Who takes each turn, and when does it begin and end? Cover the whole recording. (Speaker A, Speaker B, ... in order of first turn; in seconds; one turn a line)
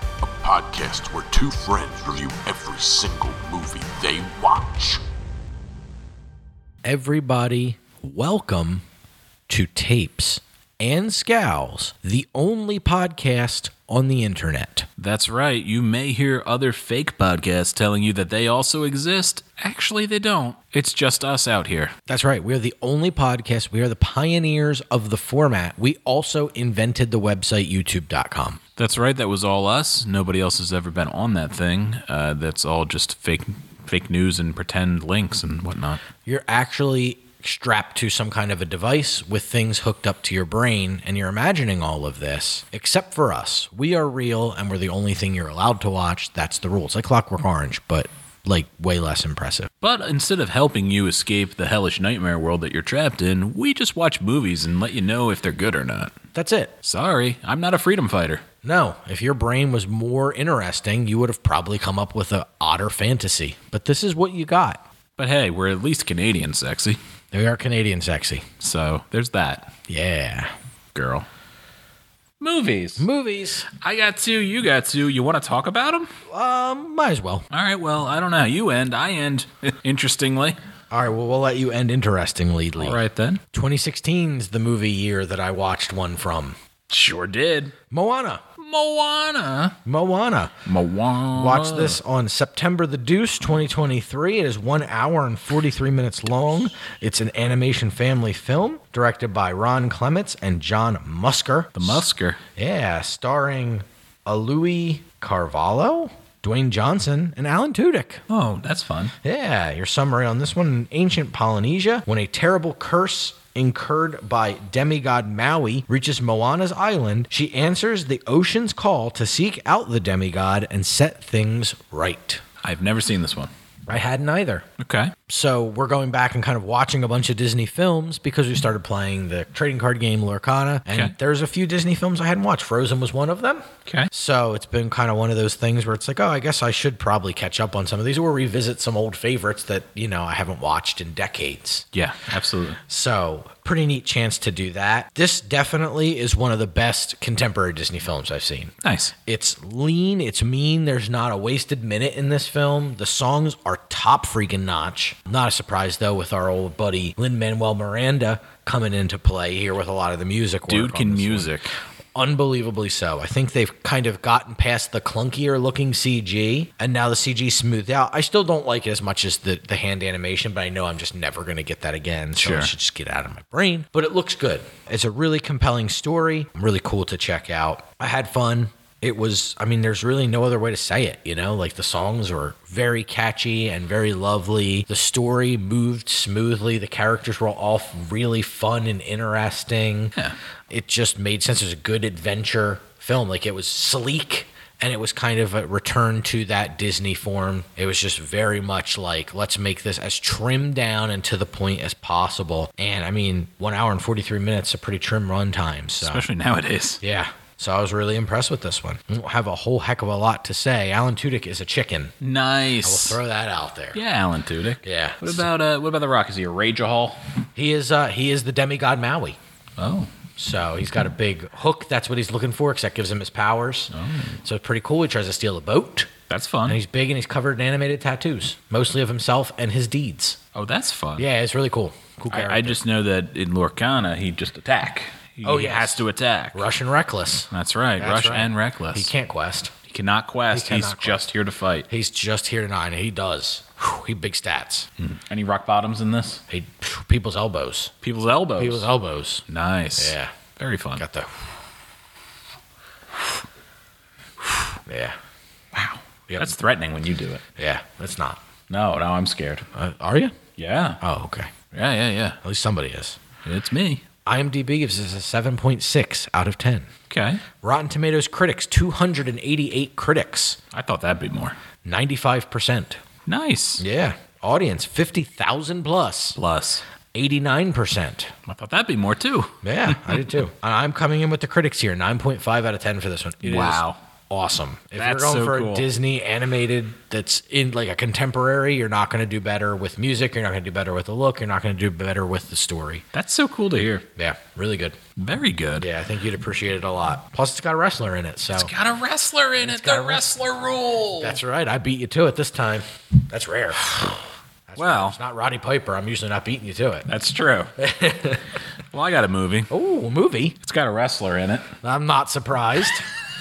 Speaker A: 0.2-5.0
Speaker B: 6.8-8.8
Speaker B: 9.5-14.9
Speaker C: 15.0-21.9
Speaker B: 22.1-28.6
Speaker C: 28.8-36.0
Speaker B: 36.2-49.7
Speaker C: 49.8-56.1
Speaker B: 56.3-56.7
Speaker C: 56.8-58.4
Speaker B: 58.6-64.8
Speaker C: 65.2-67.0
Speaker B: 67.3-68.5
Speaker C: 68.6-69.7
Speaker B: 69.9-70.5
Speaker C: 70.9-71.2
Speaker C: 72.4-73.0
Speaker B: 73.0-73.7
Speaker C: 73.7-76.1
Speaker B: 76.3-77.5
Speaker C: 77.5-80.5
Speaker B: 80.9-83.0
Speaker C: 82.8-83.4
Speaker B: 83.5-86.5
Speaker C: 86.9-87.7
Speaker B: 87.9-88.4
Speaker C: 88.6-89.8
Speaker B: 89.8-90.5
Speaker C: 90.6-92.0
Speaker B: 91.3-102.0
Speaker C: 101.8-102.4
Speaker B: 102.5-108.2
Speaker C: 108.3-109.1
Speaker B: 109.2-122.4
Speaker C: 122.6-123.5
Speaker B: 123.9-124.7
Speaker C: 124.8-125.1
Speaker B: 125.3-141.9
Speaker C: 130.9-131.2
Speaker C: 141.9-142.8
Speaker B: 142.9-148.7
Speaker C: 148.8-149.1
Speaker B: 149.2-161.5
Speaker C: 160.7-161.7
Speaker B: 162.2-190.2
Speaker C: 172.4-172.7
Speaker B: 190.7-206.2
Speaker C: 206.0-207.0
Speaker B: 207.0-212.2
Speaker C: 212.2-213.2
Speaker B: 212.8-214.0
Speaker C: 213.9-217.2
Speaker B: 214.8-215.4
Speaker B: 217.6-219.4
Speaker C: 219.8-220.1
Speaker B: 220.4-226.1
Speaker C: 223.9-224.4
Speaker C: 226.3-226.8
Speaker B: 226.7-230.4
Speaker C: 230.6-231.2
Speaker B: 231.2-232.8
Speaker C: 232.3-236.7
Speaker B: 235.4-239.7
Speaker C: 237.5-239.1
Speaker C: 239.9-241.9
Speaker B: 240.5-241.2
Speaker B: 241.9-244.9
Speaker C: 245.0-246.4
Speaker B: 246.5-247.9
Speaker C: 248.0-248.9
Speaker B: 248.6-249.4
Speaker C: 249.5-251.0
Speaker B: 250.0-250.3
Speaker B: 251.0-251.3
Speaker B: 254.9-255.2
Speaker C: 255.7-257.4
Speaker B: 257.6-258.4
Speaker C: 258.7-259.7
Speaker B: 259.7-260.4
Speaker C: 260.6-261.0
Speaker B: 261.0-261.5
Speaker C: 261.7-262.4
Speaker B: 262.4-263.2
Speaker C: 263.4-264.0
Speaker B: 264.2-266.9
Speaker C: 267.1-267.4
Speaker B: 267.6-270.6
Speaker C: 270.7-271.6
Speaker B: 271.8-273.0
Speaker C: 273.2-273.8
Speaker B: 273.8-276.4
Speaker C: 276.4-276.8
Speaker B: 277.1-278.3
Speaker C: 278.5-280.2
Speaker B: 279.6-293.0
Speaker C: 283.4-284.0
Speaker C: 285.0-285.9
Speaker C: 293.1-294.1
Speaker B: 294.1-294.9
Speaker C: 295.2-295.9
Speaker B: 295.8-298.7
Speaker C: 298.5-301.4
Speaker B: 299.6-300.3
Speaker B: 301.1-307.1
Speaker C: 304.8-305.2
Speaker C: 307.1-307.7
Speaker B: 307.8-308.4
Speaker C: 308.9-309.7
Speaker B: 309.7-310.6
Speaker C: 310.6-311.7
Speaker B: 311.8-313.1